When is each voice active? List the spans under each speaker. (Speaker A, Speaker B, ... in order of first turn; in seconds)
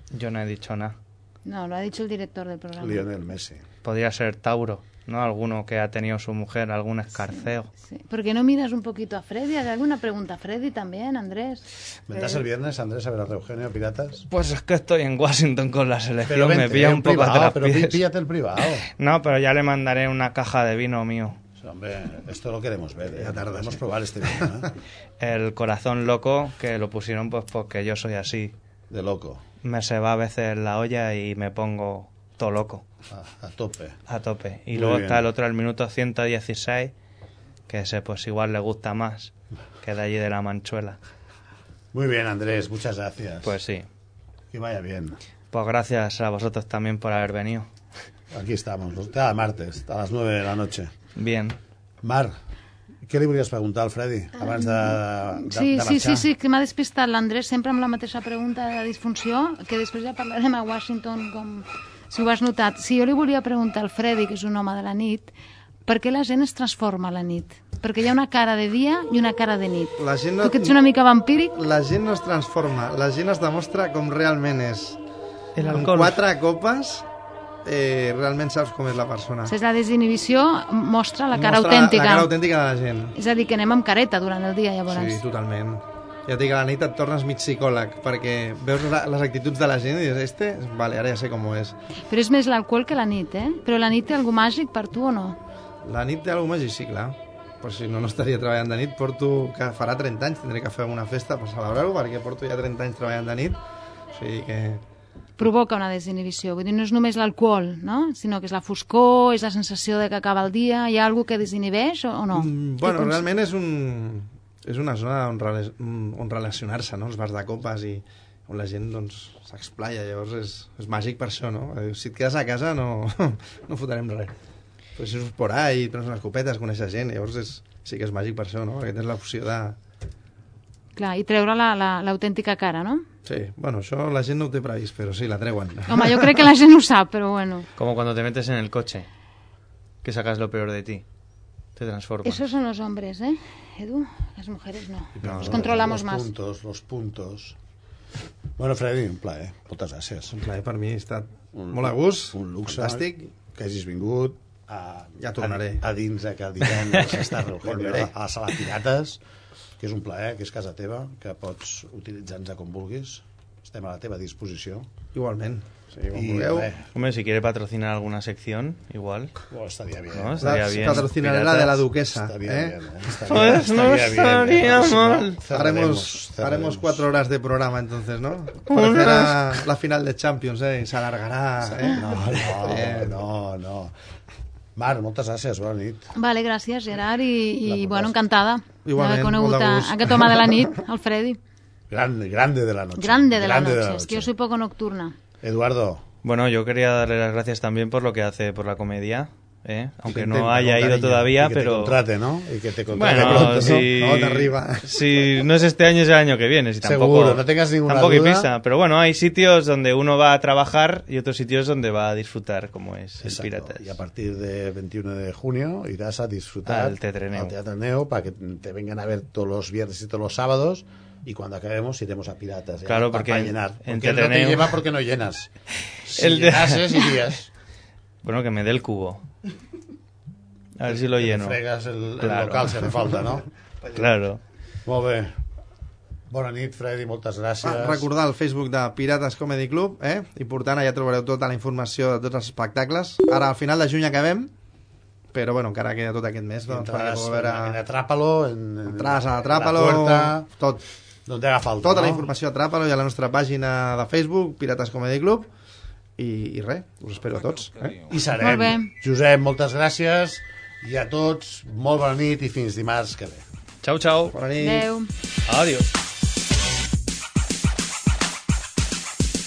Speaker A: 0.1-0.9, 3.8-7.7, 14.3-18.0, 19.0-21.4, 25.2-28.5, 29.6-32.8, 34.1-36.9, 37.7-41.0, 43.4-43.9, 45.5-47.7, 51.2-51.6, 75.6-76.2, 137.8-139.1, 140.0-141.0, 141.8-142.4, 145.2-145.7, 166.9-169.3, 170.1-171.9, 173.3-175.4, 196.2-202.0, 202.9-213.9, 216.7-217.5, 222.8-224.8, 226.1-226.9, 228.2-229.2, 230.8-231.6, 232.2-233.0, 233.9-234.4, 263.8-264.4, 265.5-265.9
Speaker B: 1.4-3.1, 7.2-11.6, 54.4-65.3, 65.9-71.5, 79.5-82.3, 83.2-85.2, 92.1-95.4, 105.4-113.2, 131.0-133.1, 135.9-137.7, 142.2-146.3, 186.2-191.4, 193.0-195.2, 258.3-258.9, 264.5-265.1
Speaker C: 2.8-3.6, 12.1-14.2, 16.2-18.9, 21.6-24.7, 28.9-29.4, 33.1-34.0, 34.7-35.2, 41.9-43.6, 44.5-45.2, 48.3-50.9, 52.0-52.4, 53.0-56.3, 145.2-147.6, 148.6-150.3, 151.5-159.2, 159.8-164.9, 166.1-166.9, 169.5-171.1, 172.1-177.1, 181.6-183.9, 184.8-186.1, 187.7-188.2, 191.9-194.3, 195.4-196.0, 200.5-203.9, 206.8-208.5, 213.2-225.5, 226.1-227.5, 230.8-233.4, 234.9-235.3, 236.3-238.1, 246.7-250.5, 251.3-252.3, 258.1-263.4
Speaker D: 23.1-24.5, 70.0-70.8, 71.5-75.0, 75.6-77.0, 77.7-79.5, 81.3-83.2, 84.9-91.8, 95.8-103.6, 104.1-104.8, 112.3-124.3, 125.0-129.8, 133.2-136.3, 145.2-145.5, 150.3-153.3, 155.2-155.8, 157.6-158.1, 165.1-166.7, 170.4-173.1, 175.5-183.2, 188.8-190.6, 200.1-201.3, 203.1-204.9, 237.6-244.5, 245.3-247.8, 248.9-250.8, 251.8-255.5, 256.2-257.9, 264.3-264.9